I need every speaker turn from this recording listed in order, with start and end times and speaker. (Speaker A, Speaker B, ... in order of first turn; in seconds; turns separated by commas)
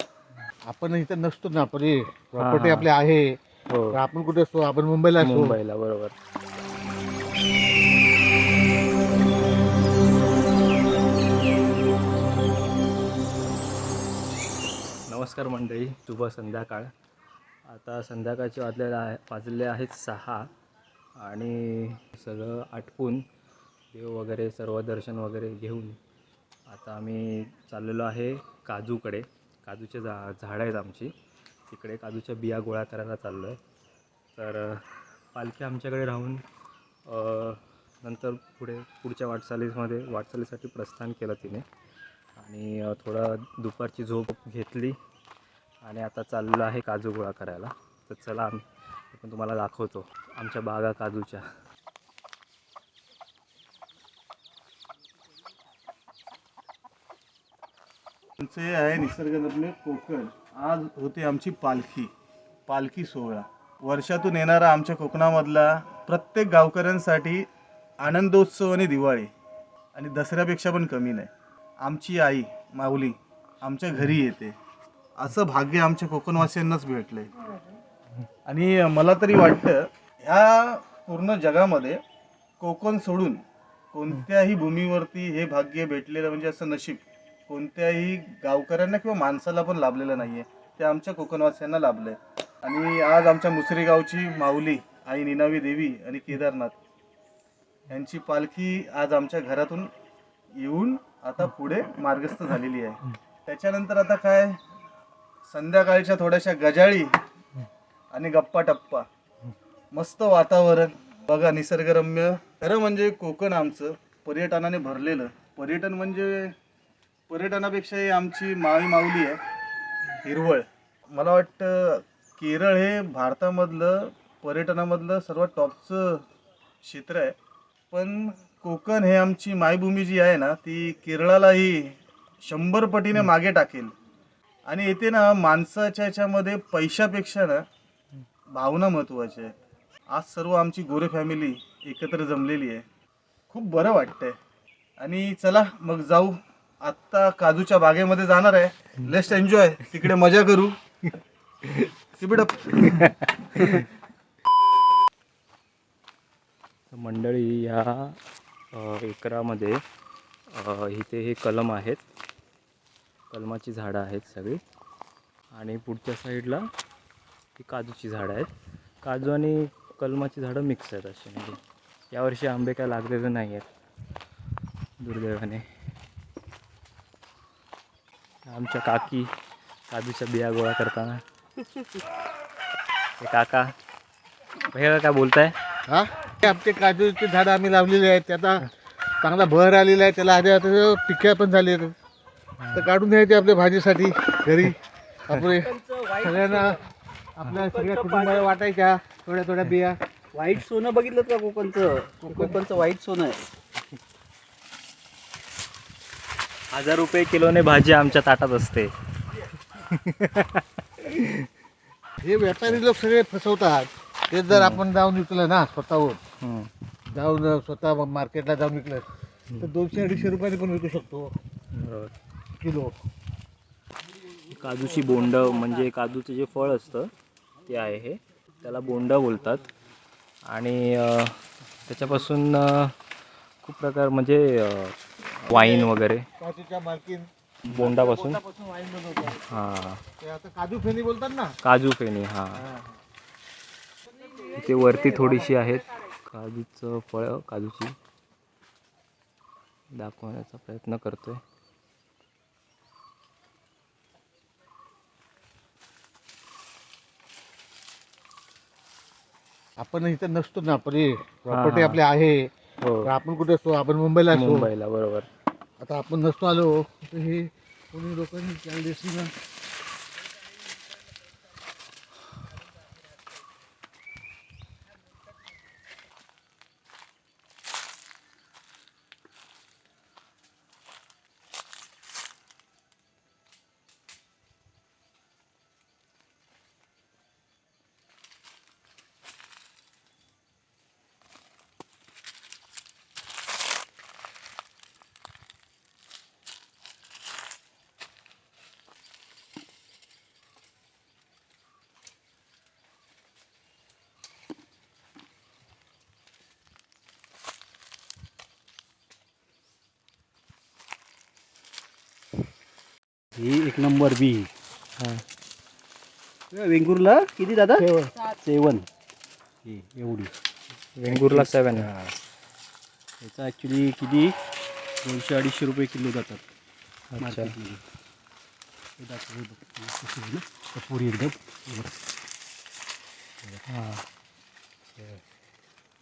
Speaker A: 0.7-3.4, Speaker B: 2.4-2.9, Speaker B: 3.7-4.0, Speaker A: 3.9-5.6, Speaker B: 5.2-6.1, Speaker B: 15.1-16.9, Speaker B: 17.7-20.5, Speaker B: 21.2-23.2, Speaker B: 23.9-26.0, Speaker B: 26.7-31.1, Speaker B: 31.7-33.6, Speaker B: 34.4-36.4, Speaker B: 37.1-41.6, Speaker B: 42.4-45.0, Speaker B: 45.8-51.5, Speaker C: 58.4-62.1, Speaker C: 62.7-67.5, Speaker C: 68.0-69.3, Speaker C: 69.9-71.3, Speaker C: 71.8-74.5, Speaker C: 75.2-77.3, Speaker C: 78.5-82.0, Speaker C: 82.6-83.4, Speaker C: 83.9-96.7, Speaker C: 97.9-99.9, Speaker C: 100.5-104.6, Speaker C: 105.5-107.1, Speaker C: 108.1-109.0, Speaker C: 109.9-116.5, Speaker C: 117.3-119.4, Speaker C: 120.2-126.2, Speaker C: 126.8-127.3, Speaker C: 127.9-133.9, Speaker C: 134.7-137.6, Speaker C: 138.5-139.5, Speaker C: 140.1-142.8, Speaker C: 143.5-144.3, Speaker C: 145.0-150.8, Speaker B: 151.6-151.9, Speaker C: 152.2-153.6, Speaker B: 152.8-153.9, Speaker B: 156.9-158.2, Speaker B: 158.7-159.8, Speaker B: 160.5-162.0, Speaker B: 163.3-164.6, Speaker B: 165.5-166.7, Speaker B: 167.6-168.5, Speaker B: 169.0-171.6, Speaker B: 172.1-173.7, Speaker B: 175.0-175.7, Speaker B: 178.4-179.3, Speaker B: 179.9-181.2, Speaker B: 183.2-183.7, Speaker B: 184.7-185.5, Speaker A: 185.9-188.7, Speaker A: 189.2-191.9, Speaker B: 192.6-192.9, Speaker A: 192.7-196.8, Speaker D: 195.4-196.8, Speaker A: 197.3-200.0, Speaker D: 197.5-198.5, Speaker D: 200.3-203.5, Speaker A: 202.2-202.6, Speaker B: 206.7-211.5, Speaker A: 212.2-216.2, Speaker B: 214.5-214.8, Speaker B: 216.4-216.7, Speaker A: 217.1-219.1, Speaker A: 219.6-221.3, Speaker B: 221.7-222.1, Speaker A: 222.6-223.0, Speaker B: 224.5-227.1, Speaker B: 227.7-229.7, Speaker B: 230.4-232.9, Speaker B: 233.6-236.3, Speaker A: 235.5-239.4, Speaker B: 237.6-238.4, Speaker B: 239.4-240.0, Speaker A: 240.2-241.6, Speaker B: 241.6-242.7, Speaker A: 242.6-242.9, Speaker B: 244.4-247.9, Speaker B: 249.9-251.4, Speaker A: 259.8-262.5, Speaker B: 261.5-262.0, Speaker B: 262.8-263.1, Speaker A: 263.0-264.7, Speaker B: 264.3-265.3, Speaker A: 265.8-269.3, Speaker D: 313.4-314.5, Speaker B: 315.0-315.2, Speaker D: 316.5-318.9, Speaker A: 317.8-318.1, Speaker D: 319.6-320.3, Speaker B: 320.9-321.9, Speaker D: 321.1-322.1, Speaker D: 323.2-324.4, Speaker D: 325.0-326.4, Speaker B: 327.1-327.5, Speaker D: 327.2-327.8, Speaker D: 329.0-331.9, Speaker B: 333.7-334.0, Speaker D: 334.9-335.2